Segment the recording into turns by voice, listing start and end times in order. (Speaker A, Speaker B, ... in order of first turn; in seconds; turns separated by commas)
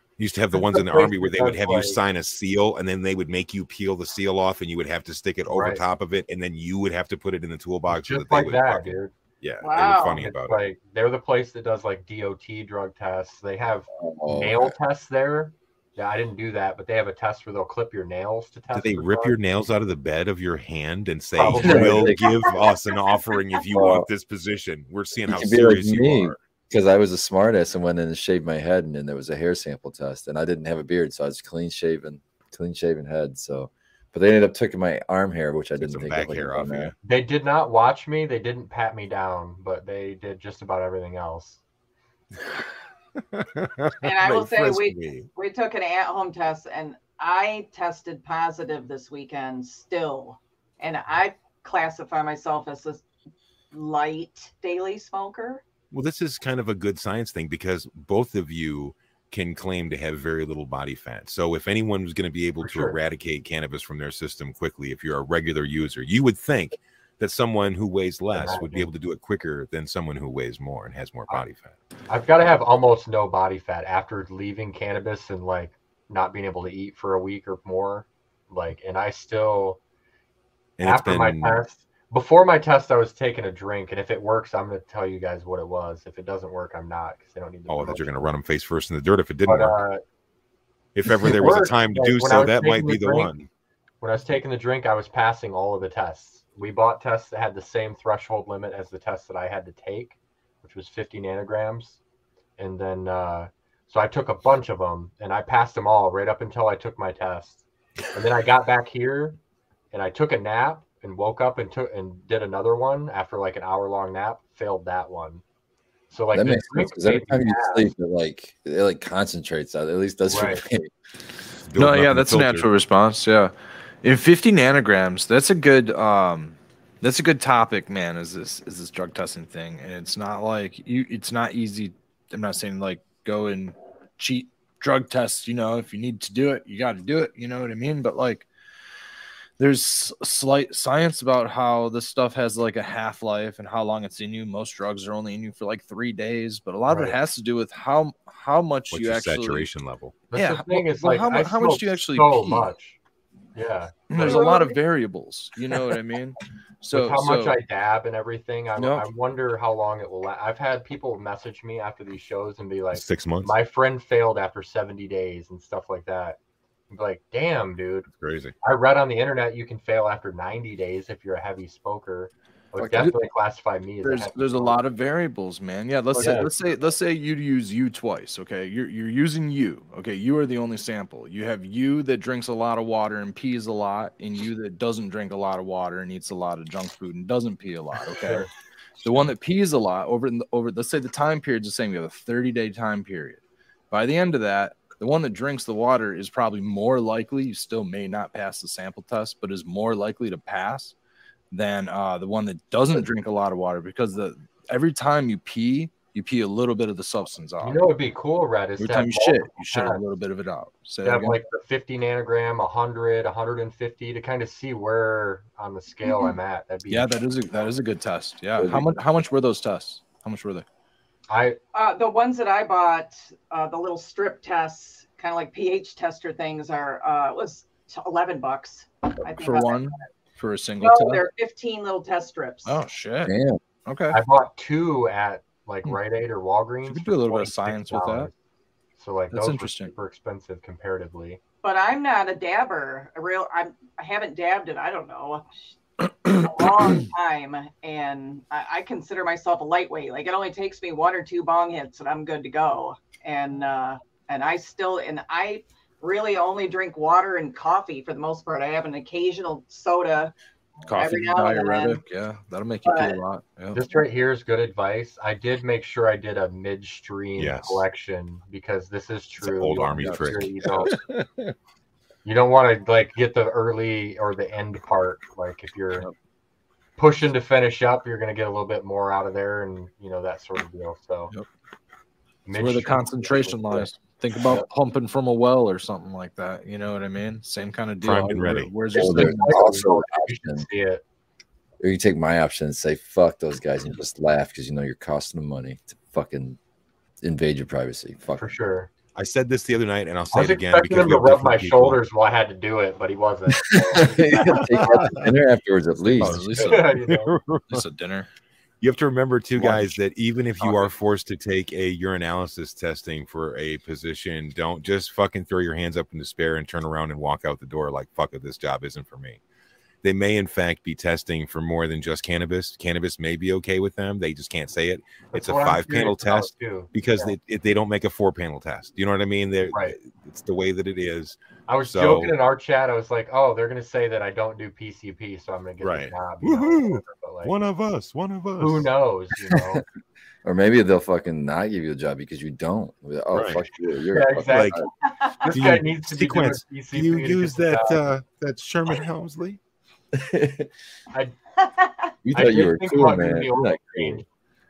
Speaker A: 0.2-10.6, Speaker B: 0.7-2.0, Speaker B: 5.5-5.8, Speaker B: 7.9-9.1, Speaker C: 9.6-10.3, Speaker B: 10.2-19.4, Speaker D: 13.9-14.7, Speaker A: 18.7-26.4, Speaker B: 21.3-22.4, Speaker D: 21.5-22.4, Speaker D: 23.7-24.1, Speaker D: 25.2-36.9, Speaker A: 35.8-36.9, Speaker B: 37.0-41.6, Speaker A: 43.3-45.3, Speaker C: 44.0-53.0, Speaker C: 53.7-55.6, Speaker A: 55.9-71.7, Speaker B: 62.6-63.0, Speaker B: 68.3-68.9, Speaker B: 72.1-79.8, Speaker A: 80.8-81.6, Speaker B: 80.8-88.1, Speaker A: 87.7-89.8, Speaker B: 89.5-90.0, Speaker A: 90.9-93.5, Speaker B: 91.0-93.3, Speaker B: 94.0-102.0, Speaker B: 102.6-109.4, Speaker B: 109.9-115.4, Speaker B: 116.1-117.9, Speaker D: 116.3-120.9, Speaker B: 120.3-120.6, Speaker A: 121.7-122.7, Speaker E: 121.8-138.5, Speaker E: 139.6-149.7, Speaker B: 146.9-147.2, Speaker A: 148.9-150.2, Speaker B: 150.3-153.0, Speaker E: 150.3-152.7, Speaker B: 153.5-154.7, Speaker E: 154.1-157.6, Speaker C: 154.2-154.6, Speaker B: 156.9-166.4, Speaker E: 158.8-159.1, Speaker A: 162.9-163.5, Speaker B: 166.9-168.1, Speaker A: 168.1-168.5, Speaker B: 168.6-174.8, Speaker D: 172.8-173.1, Speaker E: 174.0-188.5, Speaker B: 176.2-176.5, Speaker D: 176.2-176.5, Speaker B: 188.2-188.5, Speaker E: 189.0-200.9, Speaker E: 201.5-207.8, Speaker B: 207.6-210.0, Speaker E: 208.8-211.4, Speaker B: 211.0-217.1, Speaker E: 216.9-220.6, Speaker D: 218.6-218.9, Speaker B: 221.3-221.6, Speaker C: 221.7-230.0, Speaker E: 229.2-231.2, Speaker C: 230.8-232.8, Speaker E: 232.7-234.2, Speaker D: 233.2-233.6, Speaker B: 234.1-238.3, Speaker E: 236.8-238.3, Speaker B: 239.0-241.4, Speaker E: 239.3-239.9, Speaker C: 241.6-260.3, Speaker E: 260.9-263.8, Speaker C: 260.9-262.0, Speaker C: 262.8-263.2, Speaker B: 263.7-271.0, Speaker A: 267.4-267.8, Speaker A: 269.4-270.9, Speaker E: 270.0-270.3, Speaker E: 270.9-271.5, Speaker B: 272.2-276.1, Speaker B: 277.0-281.3, Speaker B: 282.4-283.9, Speaker E: 282.5-289.9, Speaker A: 288.0-288.8, Speaker B: 288.9-291.0, Speaker D: 288.9-290.6, Speaker D: 291.8-296.6, Speaker D: 297.2-298.6, Speaker B: 298.4-298.9, Speaker A: 299.1-302.0, Speaker B: 300.3-304.9, Speaker D: 303.6-306.5, Speaker A: 304.4-305.3, Speaker E: 306.1-306.9, Speaker A: 306.2-307.8, Speaker B: 306.6-307.4, Speaker E: 307.7-308.3, Speaker A: 308.8-319.4, Speaker E: 309.6-310.0, Speaker B: 310.6-310.9, Speaker A: 320.0-331.4, Speaker B: 325.3-327.3, Speaker B: 329.7-330.0, Speaker B: 331.7-337.5, Speaker A: 331.9-332.3, Speaker A: 335.8-338.9, Speaker B: 338.6-339.8, Speaker D: 339.5-339.8, Speaker D: 340.4-344.9, Speaker A: 343.3-343.6, Speaker B: 344.1-348.0, Speaker A: 344.4-344.8, Speaker C: 345.1-345.5, Speaker A: 345.5-349.6, Speaker D: 350.1-350.7, Speaker C: 351.6-352.0, Speaker D: 352.2-354.2, Speaker B: 352.3-354.2